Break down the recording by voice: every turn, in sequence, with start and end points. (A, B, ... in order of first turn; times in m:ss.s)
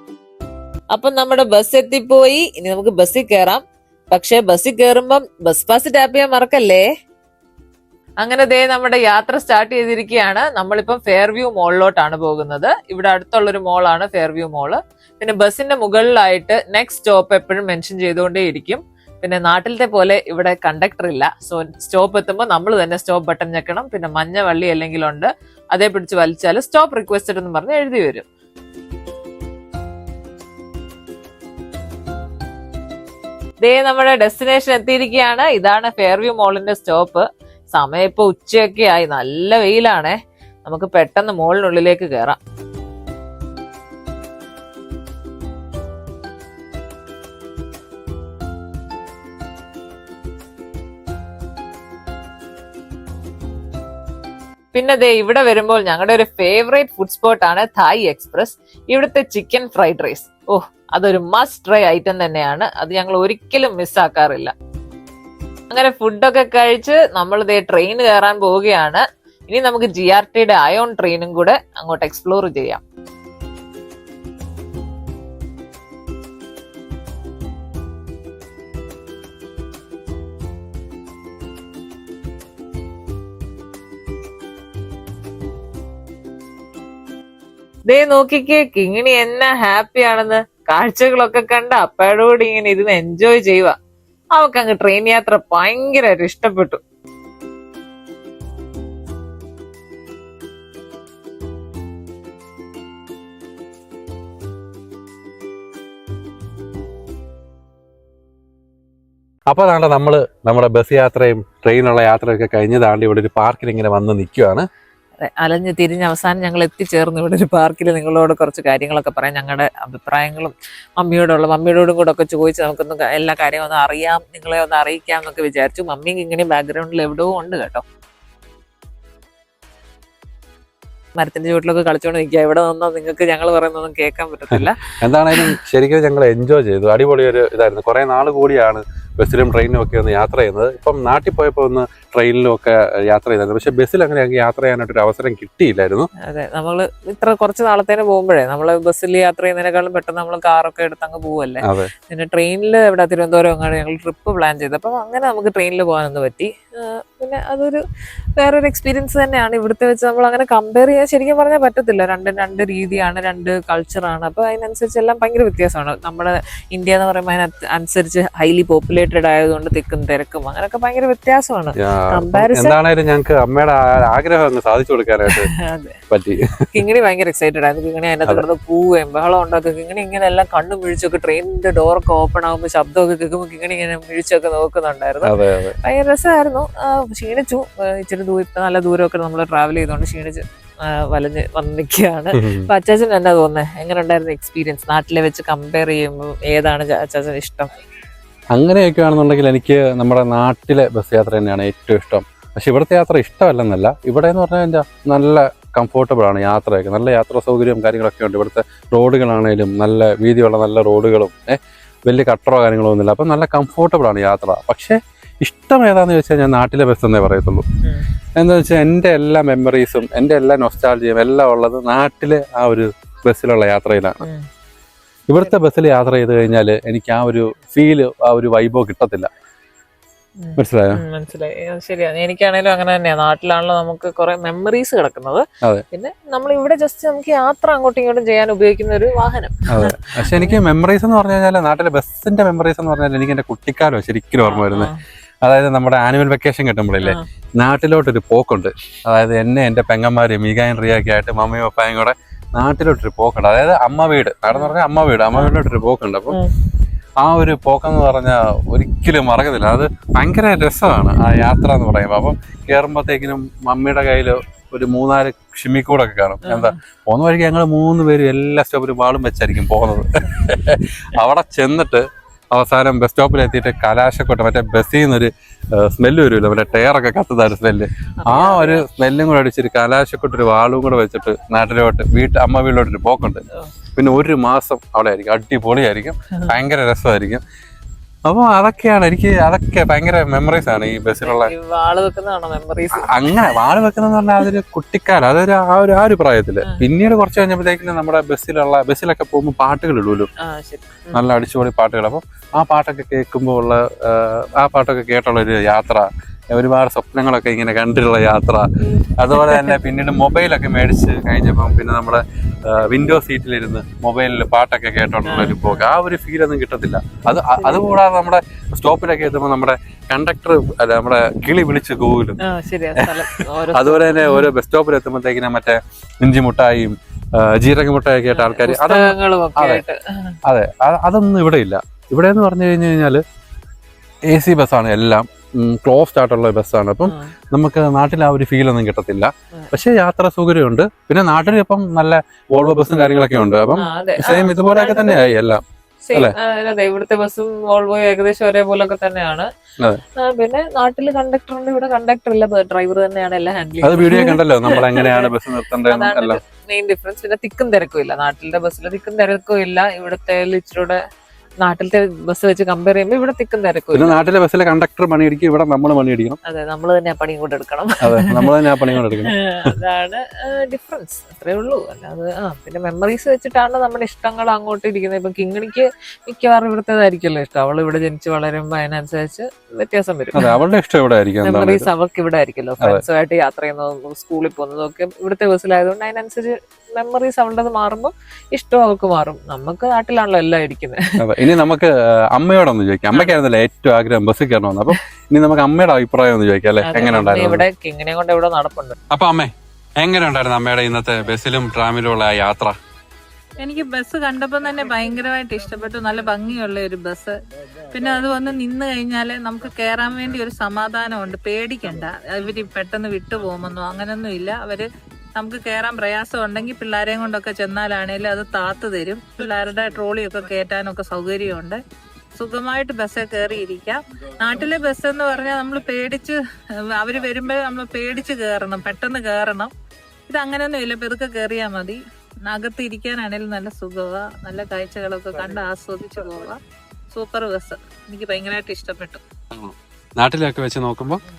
0:00.9-0:06.8 A
0:08.2-0:28.3 A
0:33.6-0:42.4 A
0:54.7-1:04.5 A
1:05.7-1:12.8 A
1:27.9-1:33.7 A
1:34.4-1:36.8 A
1:49.5-1:54.6 B
1:55.2-2:07.8 A
2:11.2-2:15.5 A
2:14.5-2:26.1 B
2:26.3-2:37.8 A
2:31.6-2:31.9 B
2:38.4-2:52.8 A
2:51.8-2:55.5 B
2:55.3-2:56.0 A
2:56.1-2:56.5 B
2:56.7-3:17.7 A
3:05.2-3:05.8 B
3:12.4-3:12.7 B
3:18.6-3:37.6 B
3:38.4-3:44.2 B
3:45.3-3:49.3 B
3:50.4-4:00.6 A
3:50.6-3:51.0 B
3:59.7-4:04.9 B
4:04.4-4:05.0 A
4:05.4-4:16.4 B
4:14.5-4:14.8 A
4:17.2-4:43.4 B
4:26.4-4:26.8 A
4:38.2-4:38.8 A
4:44.0-4:47.4 B
4:48.3-4:51.5 B
4:51.2-4:53.1 A
4:53.0-5:00.3 B
5:00.4-5:01.2 A
5:01.1-5:08.6 B
5:08.8-5:09.7 A
5:09.2-5:22.4 B
5:15.2-5:15.8 A
5:17.5-5:17.9 A
5:22.4-5:24.5 A
5:23.0-5:29.8 B
5:28.3-5:30.4 A
5:30.4-5:33.2 B
5:34.3-5:45.6 B
5:37.0-5:37.3 A
5:43.8-5:45.3 A
5:46.1-5:49.5 A
5:50.2-5:55.3 A
5:53.8-5:56.4 B
5:55.9-6:01.0 A
6:01.6-6:04.2 A
6:03.9-6:06.4 B
6:06.5-6:20.5 A
6:08.0-6:09.8 B
6:20.4-6:21.9 B
6:21.4-6:31.1 A
6:31.2-6:37.6 B
6:36.8-6:39.0 A
6:39.1-6:42.7 B
6:43.6-6:47.3 C
6:47.9-7:01.8 C
7:02.4-7:06.4 C
7:06.9-7:09.7 C
7:10.3-7:16.6 C
7:17.1-7:19.2 C
7:19.5-7:21.2 B